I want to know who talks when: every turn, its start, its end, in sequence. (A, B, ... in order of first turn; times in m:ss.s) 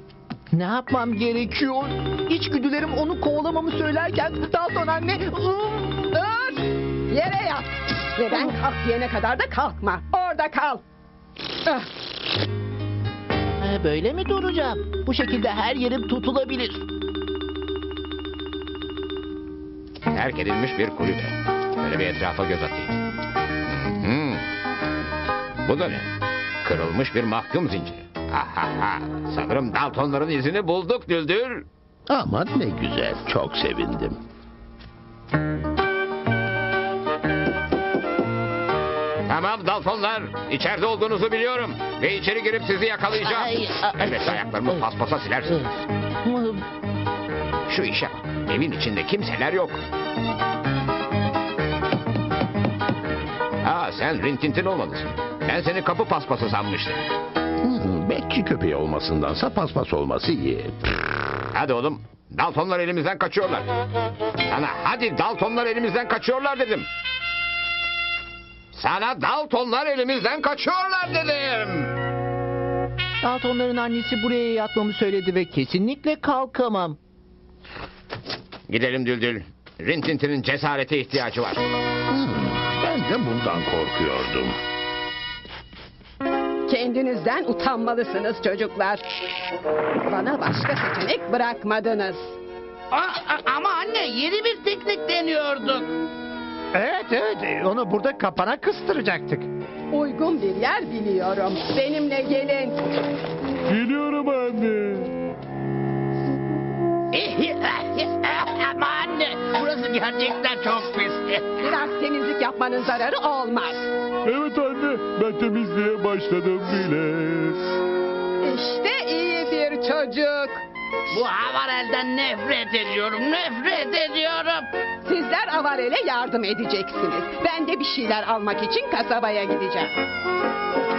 0:00.5-0:05.9 A
0:06.1-0:10.8 B
0:13.6-0:16.8 A
0:20.1-0:22.9 C
0:23.7-0:24.5 C
0:25.6-0:26.1 C
0:26.6-0:31.7 C
0:32.1-0:34.2 D
0:39.3-0:45.7 C
0:43.2-0:44.8 A
0:46.2-0:46.6 A
0:47.7-0:49.8 C
0:53.6-0:57.1 C
0:57.6-1:00.8 D
1:01.5-1:03.7 C
1:04.5-1:06.9 C
1:08.7-1:11.9 C
1:13.2-1:17.0 A
1:18.7-1:21.6 C
1:22.1-1:24.6 D
1:26.7-1:29.1 B
1:30.0-1:32.4 B
1:32.9-1:35.9 E
1:36.7-1:39.5 F
1:39.9-1:42.8 B
1:43.7-1:45.1 G
1:47.1-1:51.6 E
1:51.6-1:53.9 B
1:54.2-1:57.6 G
1:58.4-2:00.6 B
2:01.1-2:04.7 E
2:05.0-2:09.9 B